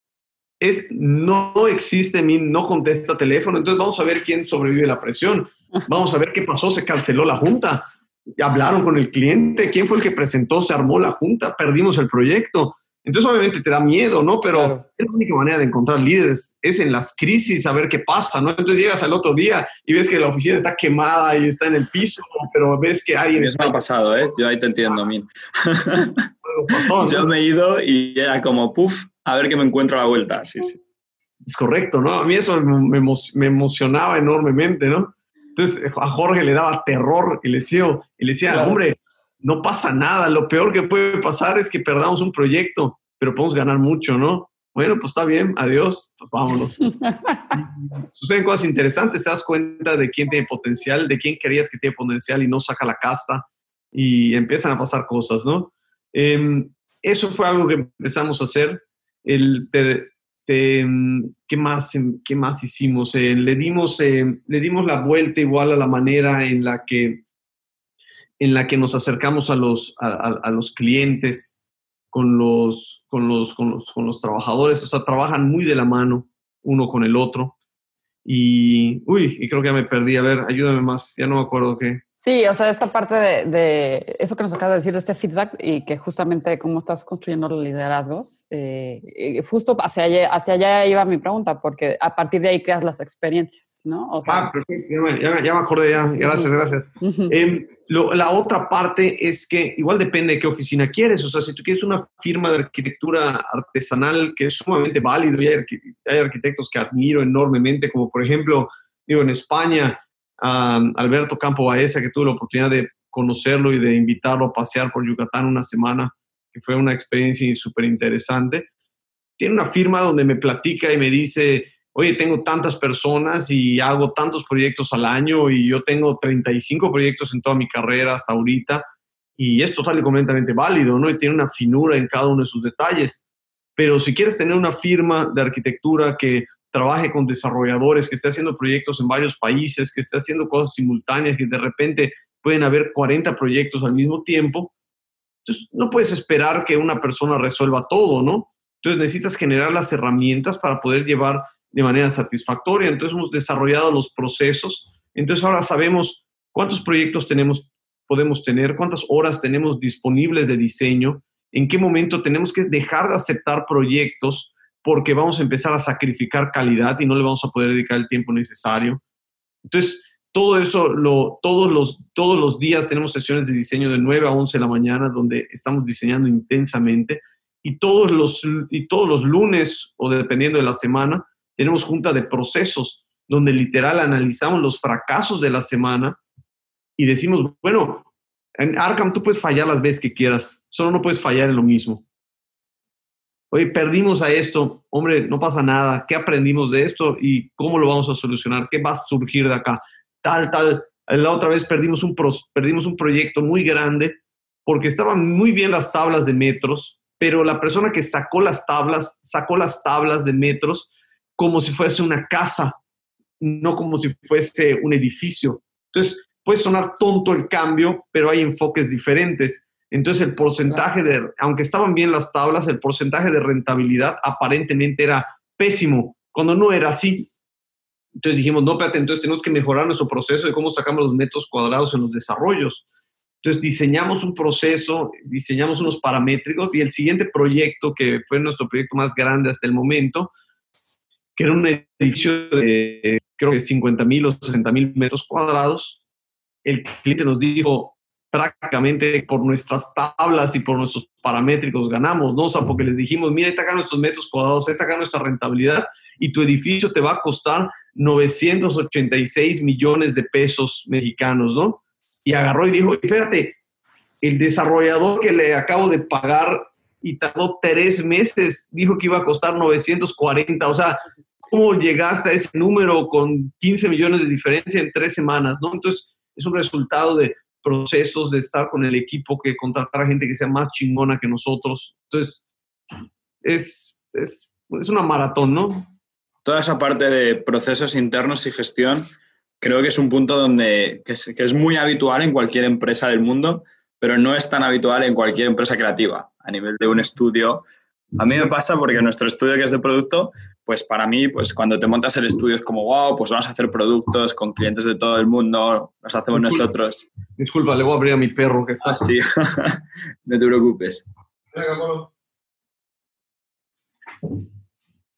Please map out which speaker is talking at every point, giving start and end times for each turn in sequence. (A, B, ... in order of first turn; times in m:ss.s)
0:00.6-0:23.8 A
0:14.5-0:14.8 B
0:23.4-0:26.2 C
0:26.4-0:27.3 A
0:27.0-0:30.8 C
0:31.4-0:46.8 A
0:38.5-0:38.8 B
0:47.0-0:47.4 B
0:47.5-1:07.2 A
1:08.4-1:11.6 A
1:12.1-1:17.5 A
1:18.2-1:22.0 A
1:22.2-1:34.5 B
1:34.2-1:58.7 A
1:37.0-1:37.3 B
1:59.4-2:08.9 A
2:09.4-2:13.2 A
2:13.8-2:24.7 A
2:25.4-2:49.0 A
2:49.6-3:06.2 A
3:07.0-3:12.0 A
3:13.5-3:32.8 A
3:33.4-3:47.3 A
3:48.2-3:52.8 A
3:53.4-4:00.3 A
4:01.4-4:06.0 A
4:06.6-4:23.6 A
4:24.2-4:42.4 A
4:43.4-4:45.9 A
4:46.4-4:49.1 C
4:49.6-4:57.6 C
4:58.2-5:07.1 C
5:06.3-5:06.6 A
5:07.4-5:09.0 A
5:08.8-5:11.0 C
5:11.5-5:12.1 A